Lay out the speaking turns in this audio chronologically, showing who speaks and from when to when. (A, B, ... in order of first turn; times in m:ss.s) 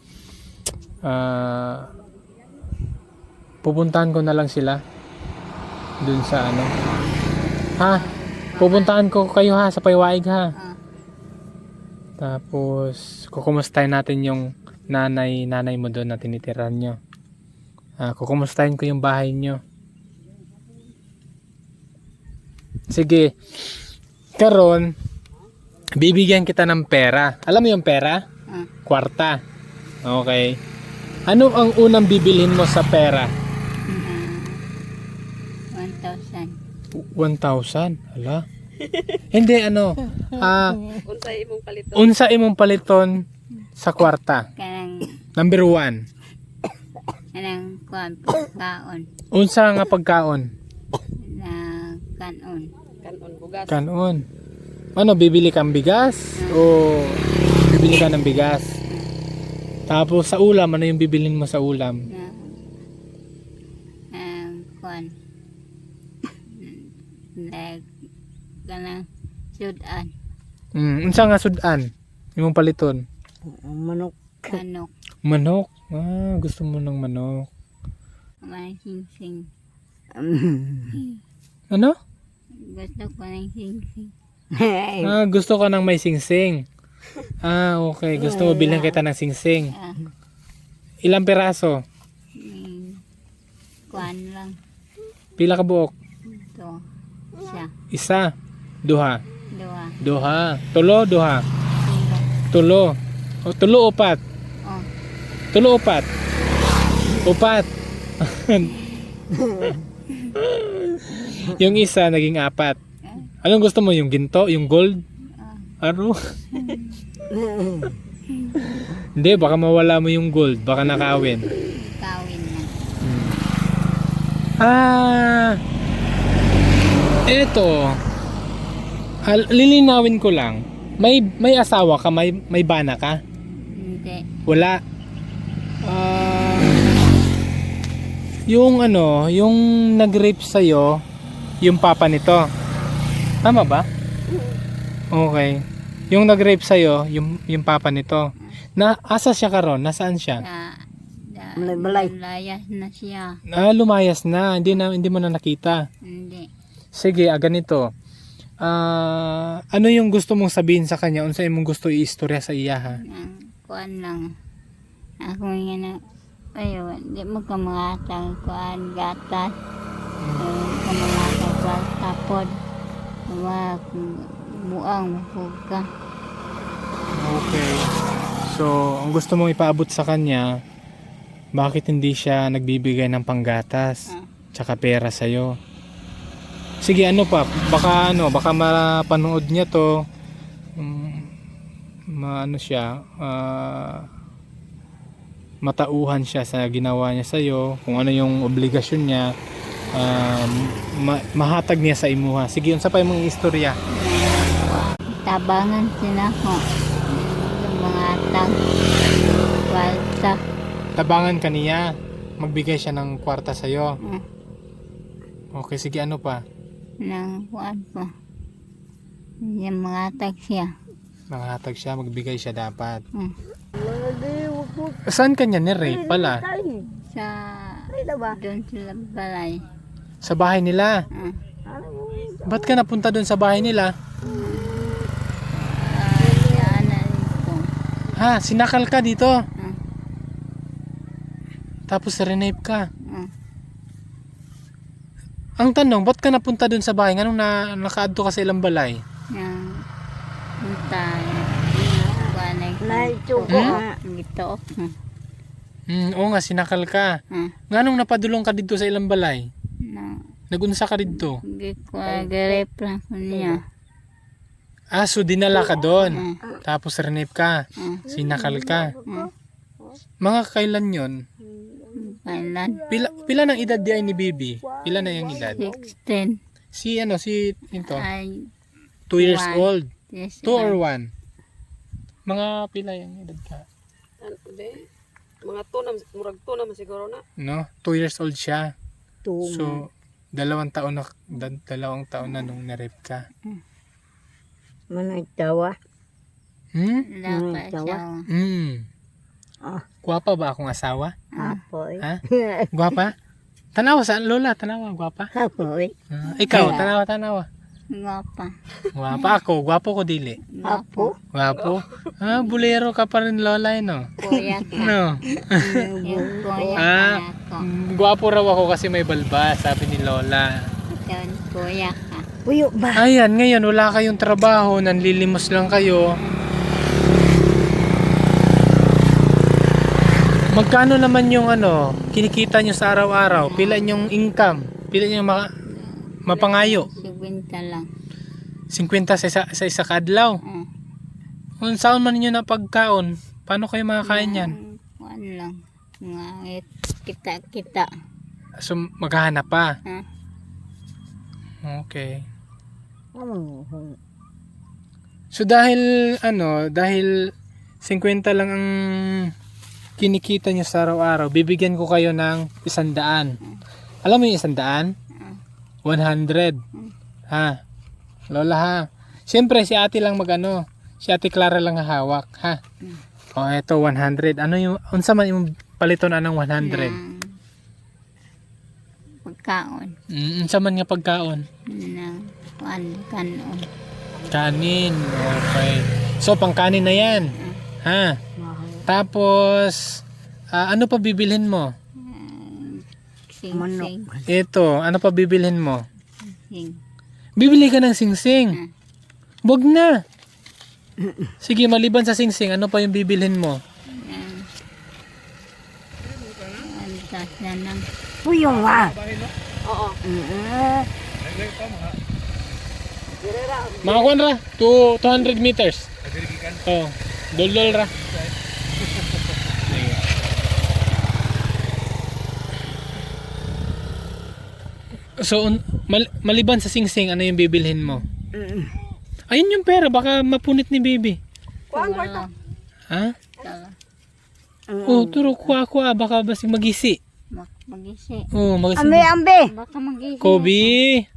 0:01.0-0:01.9 A
0:03.6-0:04.8 A
0:06.0-0:06.7 A
0:07.8-0:08.0 A
0:07.8-0:09.0 B
0:08.6-0:10.5 A
0:12.2-0:17.0 A
0:18.0-0:19.6 A
0:22.9-0:23.4 A
0:24.4-0:25.0 A
0:26.0-0:28.2 A
0:28.8-0:29.4 A
0:30.0-0:30.6 A
0:31.3-0:33.3 A
0:33.9-0:34.6 B
0:35.7-0:36.6 B
0:36.9-0:38.4 A
0:39.3-0:41.0 A
0:41.0-0:42.1 C
0:42.0-0:43.3 A
0:43.8-0:44.5 A
0:44.6-0:45.2 B
0:45.4-0:46.0 A
0:47.4-0:49.1 B
0:49.3-0:50.5 A
0:51.2-0:52.7 B
0:53.0-0:53.8 C
0:53.7-0:54.2 A
0:55.0-0:58.7 A
0:56.4-0:56.6 B
0:59.9-1:02.0 A
1:02.1-1:02.6 B
1:04.1-1:05.2 B
1:06.5-1:07.9 B
1:08.7-1:10.1 B
1:10.8-1:13.0 A
1:13.4-1:14.6 D
1:14.5-1:14.9 B
1:15.2-1:17.5 A
1:18.4-1:19.5 B
1:20.2-1:21.0 D
1:21.7-1:22.0 A
1:22.6-1:24.1 B
1:24.5-1:25.2 D
1:25.0-1:26.6 A
1:27.4-1:29.7 A
1:28.2-1:29.0 D
1:29.7-1:30.0 B
1:31.0-1:31.8 A
1:32.4-1:33.0 B
1:33.9-1:34.6 B
1:35.4-1:35.9 A
1:36.4-1:36.8 B
1:37.4-1:37.7 B
1:37.9-1:38.3 A
1:38.8-1:39.2 A
1:39.5-1:40.0 B
1:40.0-1:41.4 A
1:41.8-1:42.3 B
1:42.5-1:44.2 A
1:45.5-1:46.1 A
1:47.2-1:47.7 A
1:48.2-1:48.7 A
1:49.3-1:49.8 D
1:50.4-1:52.8 A
1:53.4-1:55.0 A
1:55.4-1:55.8 B
1:55.8-1:56.2 A
1:56.5-1:57.0 B
1:57.3-1:58.0 D
1:59.2-2:01.5 A
2:01.6-2:02.7 B
2:03.0-2:03.4 A
2:04.6-2:05.6 A
2:07.3-2:08.0 A
2:09.2-2:13.2 A
2:13.6-2:14.3 B
2:14.5-2:14.8 A
2:15.8-2:16.9 A
2:18.5-2:21.0 A
2:21.6-2:22.5 A
2:23.4-2:23.9 A
2:25.1-2:30.4 A
2:30.4-2:33.4 B
2:31.6-2:32.1 D
2:33.5-2:35.9 A
2:36.0-2:36.5 B
2:36.9-2:37.9 A
2:38.6-2:43.0 A
2:43.0-2:44.3 B
2:45.2-2:46.0 B
2:46.6-2:49.5 B
2:50.2-2:50.4 A
2:50.4-2:52.6 B
2:53.3-2:55.9 B
2:57.2-2:57.9 A
2:58.5-3:00.6 A
3:01.5-3:05.6 A
3:06.8-3:10.1 A
3:10.8-3:11.3 A
3:12.1-3:14.1 A
3:15.6-3:19.4 A
3:19.9-3:23.8 A
3:23.9-3:28.6 B
3:29.6-3:30.4 B
3:31.0-3:34.0 A
3:35.5-3:36.4 A
3:37.0-3:38.1 B
3:39.4-3:40.7 B
3:41.3-3:43.0 A
3:43.8-3:45.0 D
3:45.1-3:46.4 A
3:45.8-3:46.9 D
3:47.0-3:49.6 B
3:47.9-3:48.4 D
3:50.2-3:51.1 A
3:51.7-3:52.8 D
3:52.5-3:54.0 A
3:54.2-3:55.0 B
3:54.2-3:55.0 D
3:55.7-3:57.6 B
3:56.2-3:56.8 D
3:58.2-3:59.4 A
4:01.9-4:02.9 A
4:03.0-4:03.3 B
4:05.6-4:09.0 A
4:09.3-4:09.8 B
4:10.6-4:11.7 B
4:11.7-4:13.9 D
4:12.2-4:15.0 B
4:13.5-4:13.8 A
4:15.9-4:17.2 A
4:17.7-4:19.5 A
4:19.8-4:20.2 B
4:20.5-4:21.4 A
4:21.2-4:23.6 B
4:22.1-4:22.6 D
4:23.3-4:23.6 D
4:24.9-4:28.9 A
4:25.6-4:26.6 D
4:26.1-4:26.4 B
4:27.8-4:28.0 B
4:28.1-4:29.3 D
4:30.2-4:31.2 A
4:31.4-4:33.6 D
4:32.0-4:32.8 B
4:32.9-4:35.6 A
4:34.6-4:35.9 D
4:35.6-4:36.4 B
4:36.7-4:38.1 A
4:37.8-4:38.5 B
4:39.1-4:39.9 A
4:39.2-4:40.8 B
4:40.4-4:41.1 A
4:42.3-4:43.6 A
4:44.2-4:44.9 C
4:45.4-4:47.2 C
4:47.4-4:48.7 A
4:49.2-4:49.8 D
4:49.4-4:53.3 A
4:54.9-4:55.8 D
4:56.7-4:57.1 A
4:57.1-4:58.3 B
4:57.3-4:58.0 D
4:58.3-4:58.9 A
5:00.0-5:01.2 A
5:01.3-5:01.6 B
5:01.4-5:03.0 D
5:02.7-5:03.2 A
5:03.8-5:05.3 A
5:05.4-5:06.0 D
5:06.1-5:07.5 A
5:06.4-5:06.9 B
5:06.5-5:06.9 D
5:07.9-5:08.5 B
5:08.9-5:10.4 A
5:10.5-5:11.1 B
5:10.6-5:11.2 D
5:11.3-5:14.1 A
5:14.2-5:15.0 B
5:14.2-5:14.6 D
5:14.7-5:15.9 A
5:15.4-5:16.9 D
5:16.0-5:17.7 B
5:16.8-5:20.7 A
5:20.9-5:22.3 B
5:22.5-5:23.1 D
5:23.0-5:26.2 A
5:26.2-5:27.0 B
5:30.5-5:35.5 A
5:33.4-5:33.9 B
5:35.7-5:36.2 B
5:36.3-5:36.9 A
5:36.3-5:37.1 C
5:36.8-5:37.9 B
5:38.7-5:40.4 A
5:40.4-5:40.7 B
5:41.6-5:44.6 A
5:44.0-5:47.9 B
5:48.6-5:49.8 A
5:51.6-5:52.2 A
5:53.2-5:54.0 D
5:55.3-5:57.3 A
5:57.8-5:59.3 A
6:00.0-6:03.4 A
6:04.0-6:04.9 A
6:05.2-6:05.4 B
6:05.8-6:06.6 A
6:07.3-6:07.6 A
6:08.3-6:12.6 A
6:13.4-6:17.0 A
6:16.6-6:17.4 B
6:19.2-6:20.0 B
6:20.1-6:21.5 A
6:21.7-6:23.7 B
6:24.3-6:28.2 A
6:27.4-6:27.6 B
6:28.4-6:28.9 D
6:28.9-6:30.0 A
6:30.5-6:31.7 A
6:32.0-6:34.1 B
6:33.5-6:34.3 D
6:34.3-6:35.8 A
6:36.3-6:36.8 B
6:37.4-6:38.6 A
6:39.4-6:40.0 A
6:41.0-6:41.3 D
6:41.4-6:43.6 A
6:44.0-6:44.4 B
6:46.6-6:47.9 B
6:48.2-6:49.0 D
6:49.6-6:50.0 C
6:50.0-6:50.9 D
6:53.2-6:54.2 C
6:53.8-6:57.9 A
6:59.6-7:00.0 A
7:05.2-7:08.0 A
7:08.3-7:08.7 D
7:09.3-7:11.2 A
7:11.7-7:12.2 C
7:11.7-7:12.3 B
7:12.9-7:13.2 A
7:13.4-7:13.8 B
7:14.7-7:15.5 D
7:14.9-7:17.0 A
7:17.4-7:18.3 B
7:18.3-7:19.1 A
7:18.8-7:19.5 D
7:19.5-7:20.8 B
7:20.2-7:21.1 A